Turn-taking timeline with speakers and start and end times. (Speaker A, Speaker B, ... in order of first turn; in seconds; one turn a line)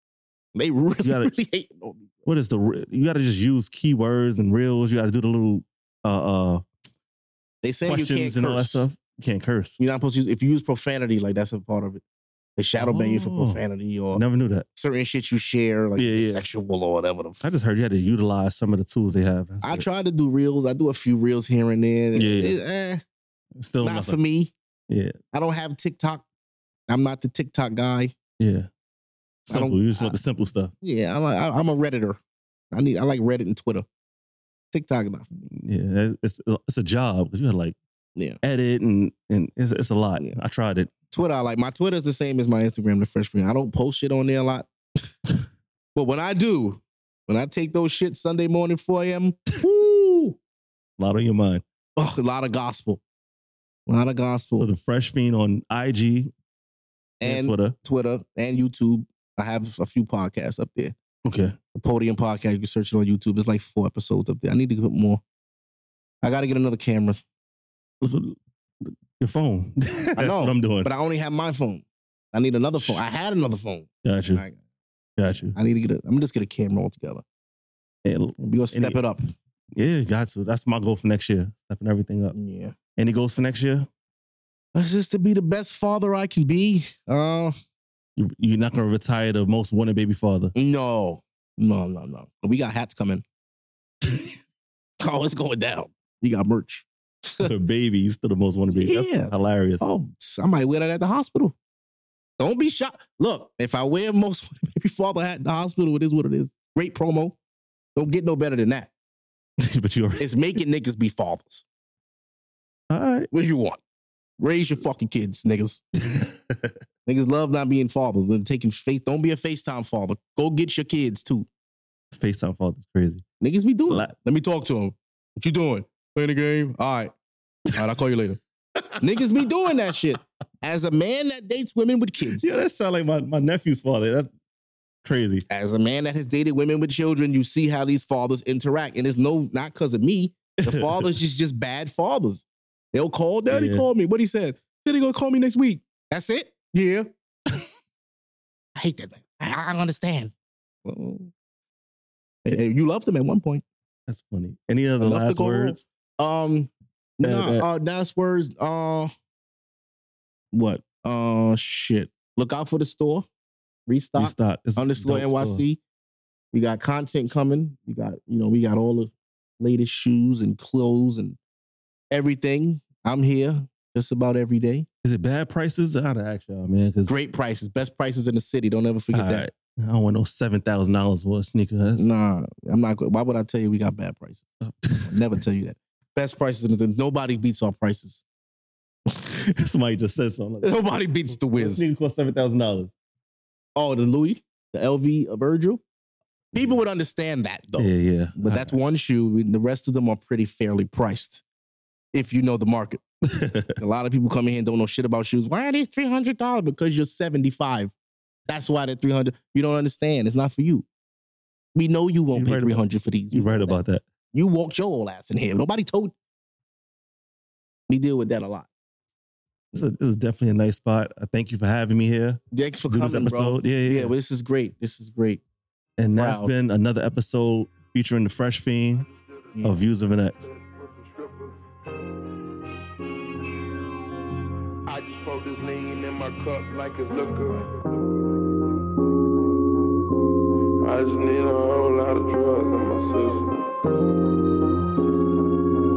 Speaker A: 0.5-2.1
Speaker B: 1.0-1.3
Speaker B: 2.2-6.6
Speaker A: 7.6-8.8
Speaker B: 7.8-9.8
Speaker A: 9.8-12.0
Speaker A: 12.6-14.2
Speaker B: 12.8-13.6
Speaker B: 14.1-14.7
Speaker A: 14.7-17.5
Speaker B: 16.0-16.4
Speaker B: 17.4-19.9
Speaker A: 19.6-23.0
Speaker B: 22.1-22.6
Speaker B: 23.6-24.2
Speaker A: 23.8-24.5
Speaker B: 24.9-25.2
Speaker A: 25.3-26.2
Speaker A: 26.9-28.1
Speaker B: 28.4-28.7
Speaker B: 29.4-30.7
Speaker A: 29.5-30.2
Speaker A: 30.8-32.2
Speaker A: 32.7-33.8
Speaker A: 34.7-35.3
Speaker B: 35.5-37.8
Speaker B: 38.4-40.9
Speaker A: 41.1-44.7
Speaker A: 45.9-50.4
Speaker B: 51.0-51.6
Speaker A: 52.0-53.0
Speaker A: 53.9-54.7
Speaker B: 54.6-56.3
Speaker A: 57.2-60.9
Speaker B: 57.2-57.8
Speaker B: 61.2-61.5
Speaker A: 61.7-65.2
Speaker A: 66.2-67.2
Speaker B: 68.0-70.9
Speaker A: 70.2-74.6
Speaker B: 74.0-74.4
Speaker B: 75.2-75.5
Speaker A: 75.5-77.2
Speaker B: 78.0-79.0
Speaker A: 78.4-79.2
Speaker B: 79.7-82.3
Speaker A: 82.3-82.8
Speaker B: 83.0-83.9
Speaker A: 84.7-87.5
Speaker B: 88.2-90.5
Speaker A: 90.5-93.2
Speaker A: 95.0-97.5
Speaker B: 97.4-99.8
Speaker A: 98.7-101.5
Speaker A: 102.4-107.4
Speaker A: 107.9-108.9
Speaker B: 109.6-110.2
Speaker A: 110.2-111.6
Speaker B: 112.9-113.3
Speaker A: 113.3-113.8
Speaker A: 114.4-115.8
Speaker B: 116.0-116.7
Speaker A: 117.0-121.5
Speaker B: 122.1-123.2
Speaker A: 123.4-127.1
Speaker A: 127.7-128.4
Speaker A: 129.0-132.6
Speaker B: 132.3-134.3
Speaker B: 135.0-135.4
Speaker A: 135.5-147.1
Speaker B: 140.6-141.1
Speaker B: 143.5-143.9
Speaker A: 148.8-150.3
Speaker A: 150.8-151.3
Speaker A: 152.4-153.6
Speaker B: 154.1-155.8
Speaker A: 155.0-159.1
Speaker B: 157.2-157.7
Speaker A: 160.5-163.3
Speaker A: 163.9-165.8
Speaker B: 164.2-165.6
Speaker A: 166.5-171.4
Speaker A: 172.1-174.9
Speaker B: 175.0-177.1
Speaker A: 177.1-179.5
Speaker B: 179.1-182.1
Speaker A: 182.0-184.4
Speaker B: 184.8-185.2
Speaker A: 185.0-188.2
Speaker B: 189.2-190.8
Speaker A: 190.6-191.9
Speaker B: 191.3-192.9
Speaker A: 193.8-195.8
Speaker A: 196.5-201.4
Speaker B: 197.8-198.8
Speaker A: 202.1-203.0
Speaker B: 203.3-203.8
Speaker A: 203.8-207.9
Speaker A: 208.5-210.8
Speaker A: 211.7-213.8
Speaker B: 212.3-214.0
Speaker A: 214.3-216.1
Speaker A: 217.9-218.7
Speaker B: 219.7-224.1
Speaker A: 222.5-225.4
Speaker B: 226.0-229.1
Speaker A: 226.1-226.5
Speaker B: 229.6-230.5
Speaker C: 230.4-231.6
Speaker C: 234.8-237.8
Speaker C: 240.8-243.6